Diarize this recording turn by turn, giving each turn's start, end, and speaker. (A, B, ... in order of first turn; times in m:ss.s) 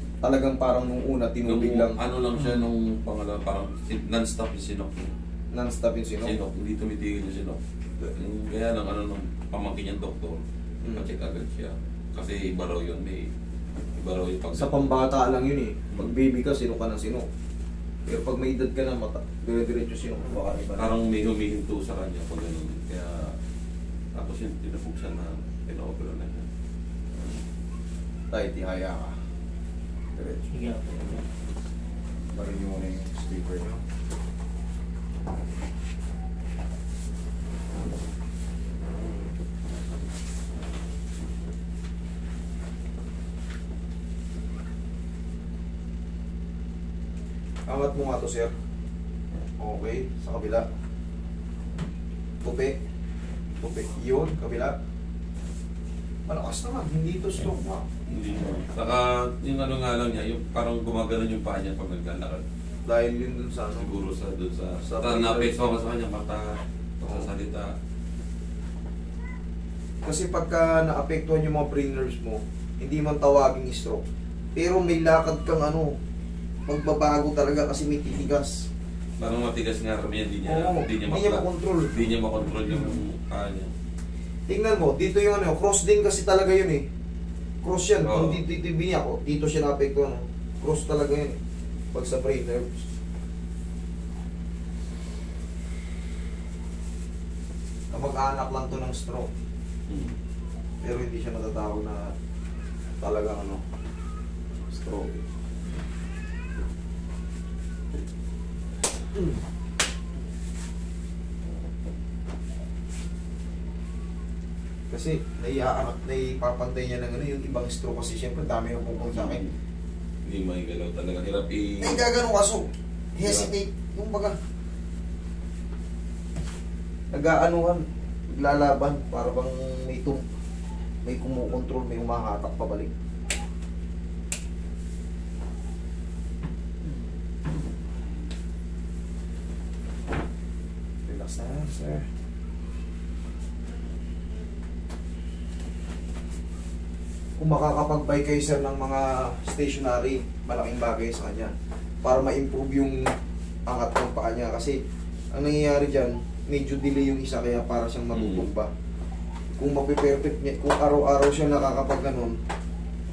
0:00.2-0:02.0 A
0:01.5-0:05.2 B
0:05.5-0:06.4 A
0:06.2-0:13.3 B
0:10.8-0:11.1 A
0:14.0-0:14.9 B
0:14.5-0:17.3 A
0:18.1-0:20.9 A
0:20.8-0:23.4 B
0:24.1-0:26.5 B
0:28.3-0:29.2 A
0:30.2-0:30.5 A
0:32.3-0:33.8 A
0:47.7-0:48.5 A
0:49.6-0:50.6 A
0:52.4-0:52.8 A
0:53.6-0:54.8 A
0:56.3-0:57.9 A
0:58.1-1:02.4 B
1:02.8-1:03.9 A
1:03.8-1:07.8 B
1:04.9-1:05.7 A
1:07.0-1:07.3 A
1:10.0-1:14.0 A
1:14.6-1:16.0 A
1:16.7-1:18.6 A
1:19.2-1:23.7 B
1:20.4-1:21.9 A
1:24.5-1:26.8 A
1:27.6-1:31.4 A
1:28.0-1:28.4 B
1:31.9-1:32.9 A
1:37.9-1:39.3 A
1:39.9-1:40.1 B
1:40.8-1:42.1 A
1:43.0-1:43.6 A
1:44.7-1:45.2 A
1:54.9-1:59.4 A
1:59.1-1:59.5 B
2:00.2-2:02.1 B
2:01.8-2:04.4 A
2:03.2-2:03.5 B
2:07.1-2:10.2 A
2:11.0-2:12.9 A
2:21.1-2:22.0 A
2:27.4-2:31.5 A
2:32.0-2:33.1 A
2:33.7-2:34.8 A
2:35.3-2:38.7 A
2:38.1-2:38.5 B
2:39.6-2:42.4 A